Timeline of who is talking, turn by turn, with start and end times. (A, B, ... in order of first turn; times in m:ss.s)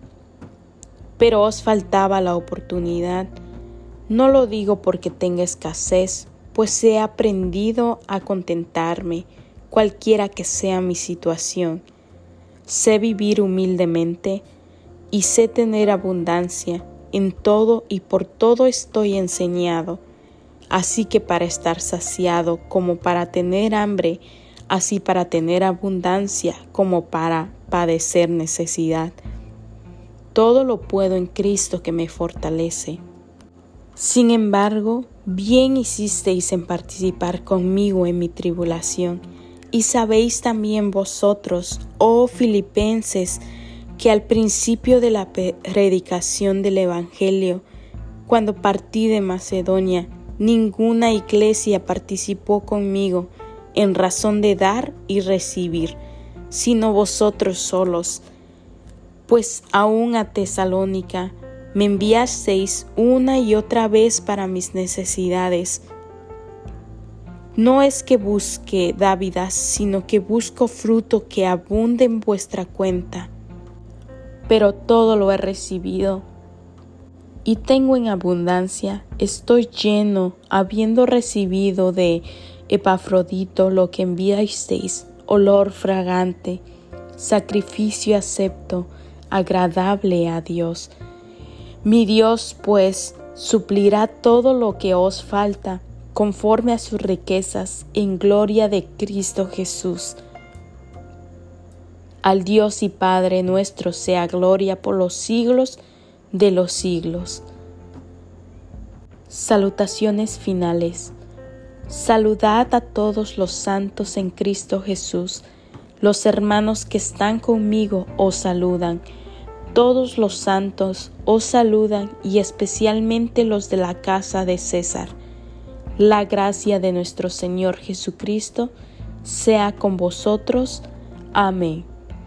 0:01.2-0:03.4 A
0:04.1-0:11.8 A
0:12.7-0:14.5 A
0:15.1-0:20.0 A
0:20.7-0:29.2 A
0:30.3-0:33.0 A
0:34.0-0:43.4 A
0:44.0-0:47.6 A
0:48.3-0:56.0 A
0:56.5-0:58.2 A
0:59.3-1:05.8 A
1:07.6-1:13.3 A
1:14.5-1:16.3 A
1:17.4-1:26.6 A
1:27.2-1:30.9 A
1:31.8-1:40.2 A
1:42.2-1:45.8 A
1:46.3-1:47.4 A
1:49.3-1:51.2 A
1:51.9-1:55.4 A
1:56.0-1:59.0 A
1:59.7-2:05.2 A
2:06.0-2:08.7 A
2:09.2-2:11.9 A